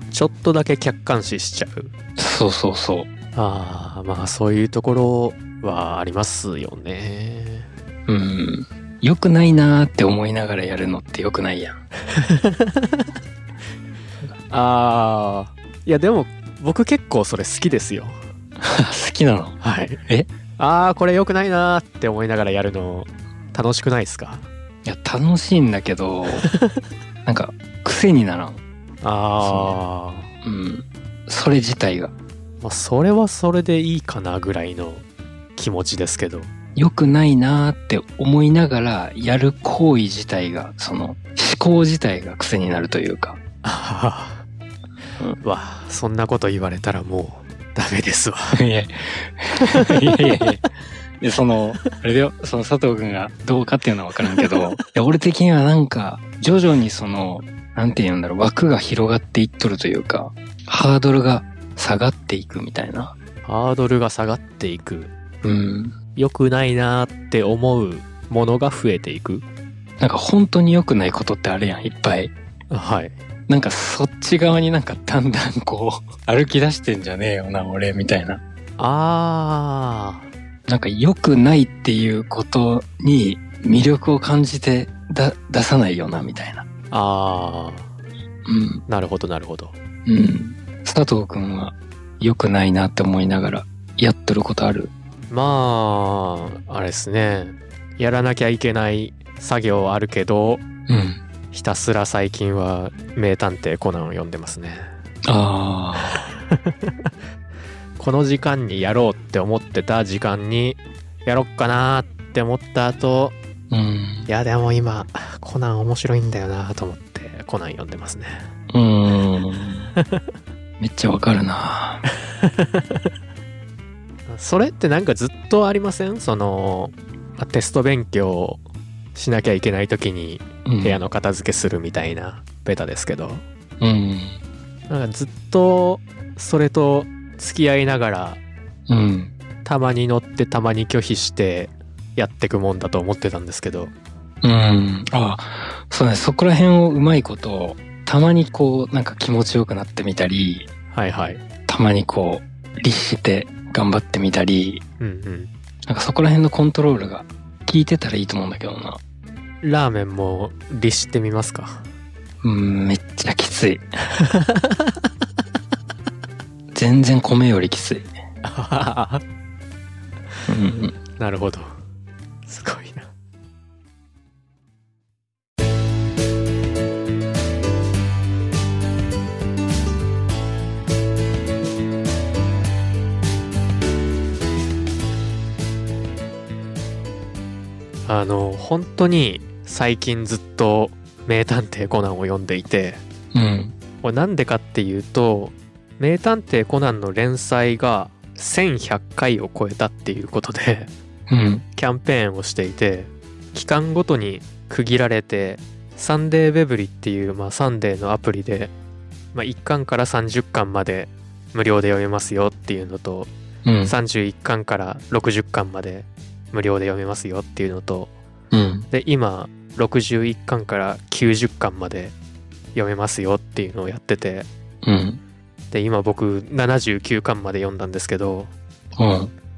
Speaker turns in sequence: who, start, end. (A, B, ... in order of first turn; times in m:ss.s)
0:00.1-0:01.9 A
0:02.2-0:03.1 B
0:03.3-0:07.7 A
0:08.1-0:11.8 B
0:12.1-0:13.0 A
0:14.5-0:18.2 A
0:18.6-0:20.3 B
0:19.6-0:20.0 A
0:20.6-0:24.4 A
0:24.8-0:26.5 B
0:27.2-0:28.6 B
0:29.0-0:30.3 A
0:29.4-0:29.8 B
0:30.4-0:32.1 B
0:32.6-0:35.0 A
0:35.6-0:36.5 A
0:36.8-0:43.4 B
0:43.6-0:44.4 A
0:45.4-0:48.6 A
0:48.5-0:50.6 B
0:49.6-0:50.5 A
0:51.2-1:03.1 B
0:54.2-0:54.8 A
1:03.4-1:05.1 A
1:05.4-1:05.9 B
1:06.2-1:09.4 A
1:10.0-1:12.3 B
1:12.7-1:13.1 A
1:13.5-1:18.4 B
1:18.8-1:20.2 A
1:20.7-1:26.6 B
1:26.9-1:27.9 A
1:28.4-1:28.8 B
1:28.9-1:29.7 A
1:30.0-1:34.9 B
1:35.3-1:40.6 A
1:40.9-1:41.2 B
1:41.5-1:44.9 A
1:45.2-1:46.2 B
1:46.1-1:47.1 A
1:48.0-1:53.4 A
1:53.7-1:54.3 B
1:54.3-1:58.4 A
1:58.7-1:59.9 B
2:00.0-2:00.2 A
2:00.8-2:02.0 B
2:02.4-2:03.0 A
2:04.3-2:08.6 A
2:09.1-2:13.4 A
2:10.6-2:11.0 B
2:13.8-2:14.4 B
2:14.9-2:18.4 A
2:18.9-2:19.3 B
2:19.6-2:23.9 A
2:24.4-2:30.7 B
2:30.9-2:31.4 A
2:31.7-2:34.8 B
2:35.0-2:35.5 A
2:35.8-2:39.0 B
2:39.6-2:41.8 A
2:42.4-2:43.8 B
2:44.2-2:44.9 A
2:46.7-2:48.1 B
2:48.4-2:49.2 A
2:50.5-2:51.0 B
2:51.1-2:51.7 A
2:52.4-2:53.1 A
3:08.0-3:13.0 A
3:13.3-3:13.7 B
3:14.0-3:20.9 A
3:21.3-3:21.6 B
3:21.8-3:28.7 A
3:29.3-3:33.3 A
3:33.6-3:33.9 B
3:33.8-3:38.1 A
3:38.5-3:38.9 B
3:38.9-3:42.1 A
3:42.7-3:44.5 A
3:44.8-3:45.2 B
3:45.7-3:48.5 A
3:49.0-3:49.3 B